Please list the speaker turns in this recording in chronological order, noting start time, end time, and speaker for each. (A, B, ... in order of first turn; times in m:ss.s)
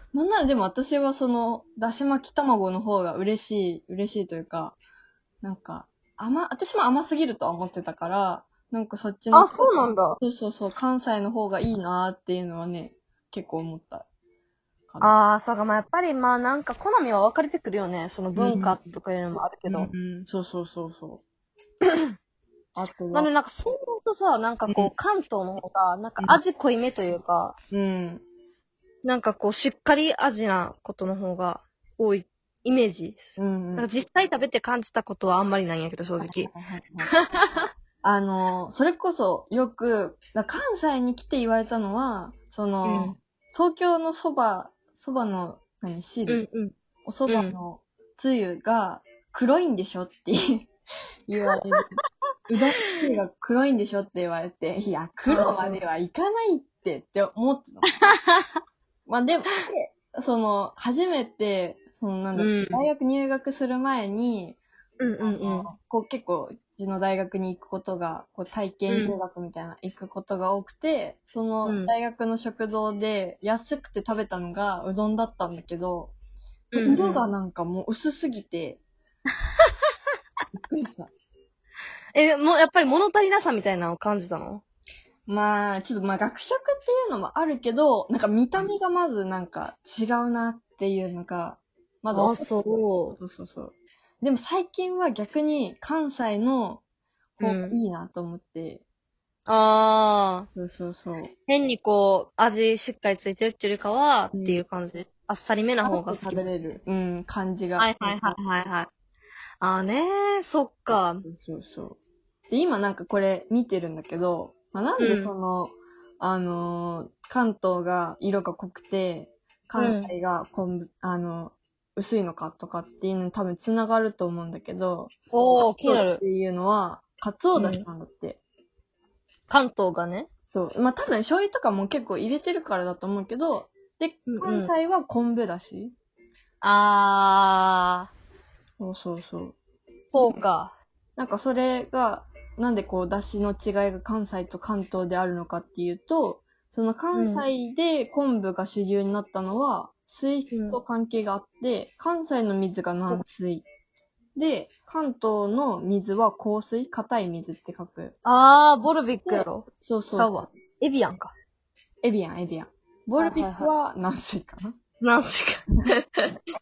0:00.1-0:04.8 A
0:05.4-0:14.0 A
0:09.3-0:10.2 B
0:14.9-0:15.1 A
0:15.0-0:19.9 B
0:18.4-0:18.8 A
0:19.7-0:21.2 A
0:22.8-0:23.3 A
0:23.1-0:27.6 B
0:27.7-0:28.2 A
0:29.0-0:36.5 B
0:33.4-0:33.9 A
0:36.2-0:37.1 A
0:37.1-0:37.6 B
0:38.0-0:46.4 A
0:42.8-0:43.1 B
0:46.3-0:46.7 B
0:47.0-0:50.7 A
0:47.3-0:47.6 B
0:51.3-0:51.9 A
0:52.5-0:58.2 A
0:55.3-0:55.8 B
0:57.9-0:58.6 B
0:59.1-1:04.6 A
1:02.4-1:02.9 B
1:05.0-1:05.7 B
1:05.2-1:16.1 A
1:08.9-1:09.2 B
1:11.6-1:11.9 B
1:16.7-1:17.3 B
1:16.8-1:18.8 A
1:20.6-1:21.1 A
1:22.1-1:24.6 B
1:25.3-1:32.6 A
1:32.1-1:33.2 B
1:33.1-1:36.8 A
1:37.4-1:38.8 A
1:37.4-1:37.8 B
1:39.5-1:40.5 B
1:40.5-1:41.3 A
1:41.5-1:46.5 B
1:44.3-1:44.6 A
1:45.8-1:48.4 A
1:47.8-1:48.9 B
1:49.6-1:51.2 B
1:51.2-1:52.0 A
1:52.5-2:05.1 A
1:55.0-1:55.3 B
1:59.8-2:00.1 B
2:05.3-2:06.2 B
2:05.8-2:08.4 A
2:07.5-2:07.8 B
2:09.5-2:10.3 B
2:10.5-2:15.9 A
2:14.3-2:14.7 B
2:16.6-2:18.1 B
2:18.8-2:19.6 A
2:20.1-2:20.7 B
2:21.2-2:33.6 A
2:27.1-2:27.5 B
2:30.5-2:30.8 B
2:34.4-2:38.1 A
2:38.2-2:41.3 B
2:39.2-2:40.5 A
2:42.0-2:44.8 A
2:43.2-2:43.7 B
2:45.0-2:46.4 B